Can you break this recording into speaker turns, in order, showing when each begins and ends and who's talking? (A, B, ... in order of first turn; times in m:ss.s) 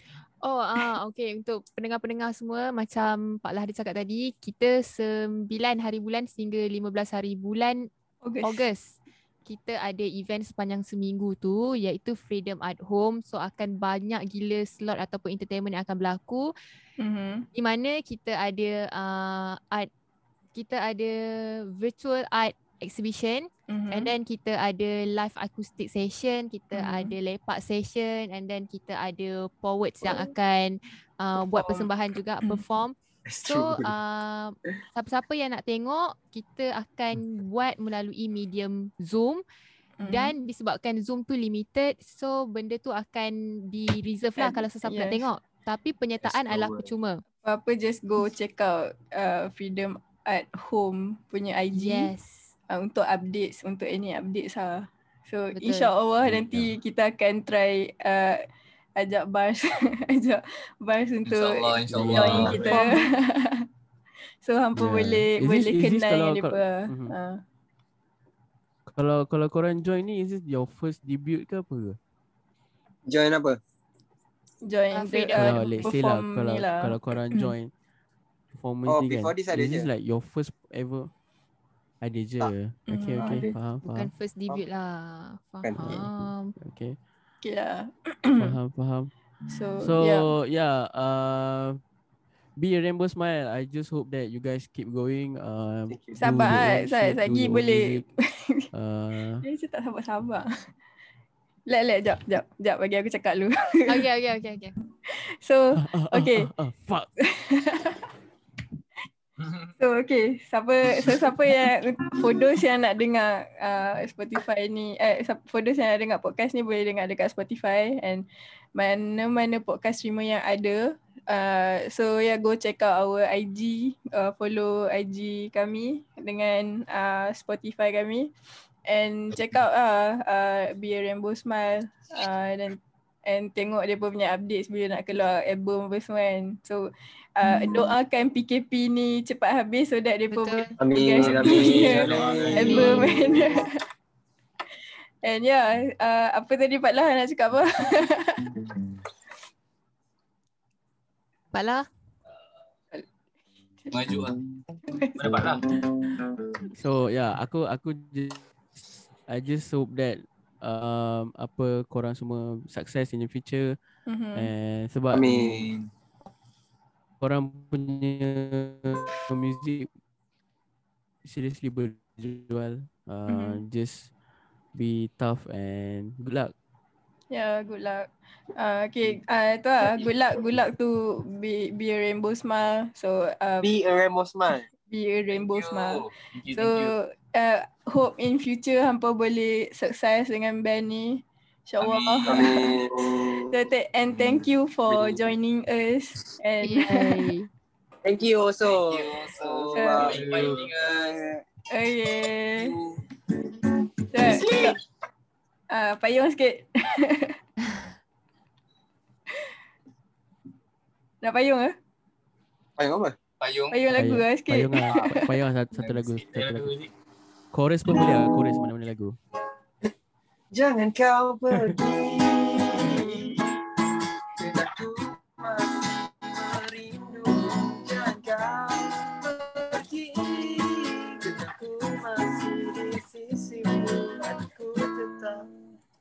0:00.4-0:07.9 A
0:08.2-0:08.7 B
0:08.4-0:16.5 A
0:17.0-0:17.5 B
0:17.5-0:19.9 A
0:20.6-0:39.4 A
0:23.7-0:24.1 B
0:26.7-0:27.1 B
0:30.0-0:30.3 B
0:31.6-0:31.9 B
0:33.3-0:33.9 C
0:40.0-0:40.3 B
0:40.1-0:47.2 A
0:44.4-0:45.2 B
0:46.3-0:46.7 D
0:47.4-0:52.1 B
0:51.7-0:52.5 A
0:52.7-1:03.7 B
0:55.5-0:55.9 A
0:56.2-0:56.7 E
1:01.3-1:02.9 D
1:01.9-1:02.8 E
1:04.4-1:07.4 B
1:04.8-1:07.2 E
1:08.9-1:12.0 E
1:13.1-1:13.6 C
1:14.6-1:17.5 B
1:14.9-1:15.9 A
1:15.4-1:17.7 E
1:18.5-1:21.1 E
1:18.9-1:19.9 C
1:22.0-1:24.1 E
1:22.9-1:23.5 B
1:23.2-1:23.5 C
1:23.8-1:26.6 A
1:25.6-1:26.0 C
1:25.8-1:27.0 E
1:27.4-1:28.6 B
1:28.4-1:29.1 E
1:29.5-1:30.3 B
1:29.8-1:31.8 E
1:32.6-1:38.1 E
1:35.9-1:36.6 C
1:36.2-1:38.7 B
1:38.7-1:39.5 E
1:39.4-1:40.5 B
1:41.7-1:44.1 B
1:43.9-1:44.7 A
1:45.1-1:46.5 B
1:45.8-1:47.1 E
1:47.2-1:48.1 B
1:49.7-2:08.3 B
2:08.9-2:23.8 B
2:20.3-2:20.7 A
2:20.8-2:23.4 C
2:21.2-2:23.4 D
2:22.6-2:23.0 A
2:25.2-2:28.6 B
2:31.5-2:31.9 A
2:33.9-2:34.4 D
2:34.9-2:35.4 B
2:35.2-2:35.7 D
2:36.7-2:38.4 E
2:39.3-2:43.8 E
2:44.1-2:44.5 B
2:44.3-2:45.5 E
2:45.1-2:45.7 C
2:45.4-2:45.9 D
2:47.2-2:49.9 E
2:51.2-2:54.1 E
2:53.3-2:53.6 B
2:54.8-2:56.5 E
2:57.3-3:03.7 B
2:59.8-3:00.2 C
3:03.6-3:04.7 C
3:04.9-3:12.5 B
3:05.3-3:06.9 D
3:11.8-3:12.8 D
3:12.3-3:13.7 C
3:13.4-3:17.3 B
3:14.9-3:15.2 D
3:16.6-3:17.5 A
3:18.0-3:21.4 C
3:18.7-3:21.2 D
3:19.8-3:20.2 B
3:21.7-3:22.8 B
3:23.4-3:23.6 C
3:24.1-3:24.8 B
3:24.3-3:24.7 C
3:25.7-3:27.4 B
3:31.2-3:31.7 B
3:32.8-3:33.2 C
3:33.4-3:33.8 D
3:33.7-3:35.4 B
3:33.9-3:36.7 E
3:35.8-3:36.9 D
3:37.5-3:39.2 E
3:40.5-3:43.6 C
3:44.4-3:55.5 C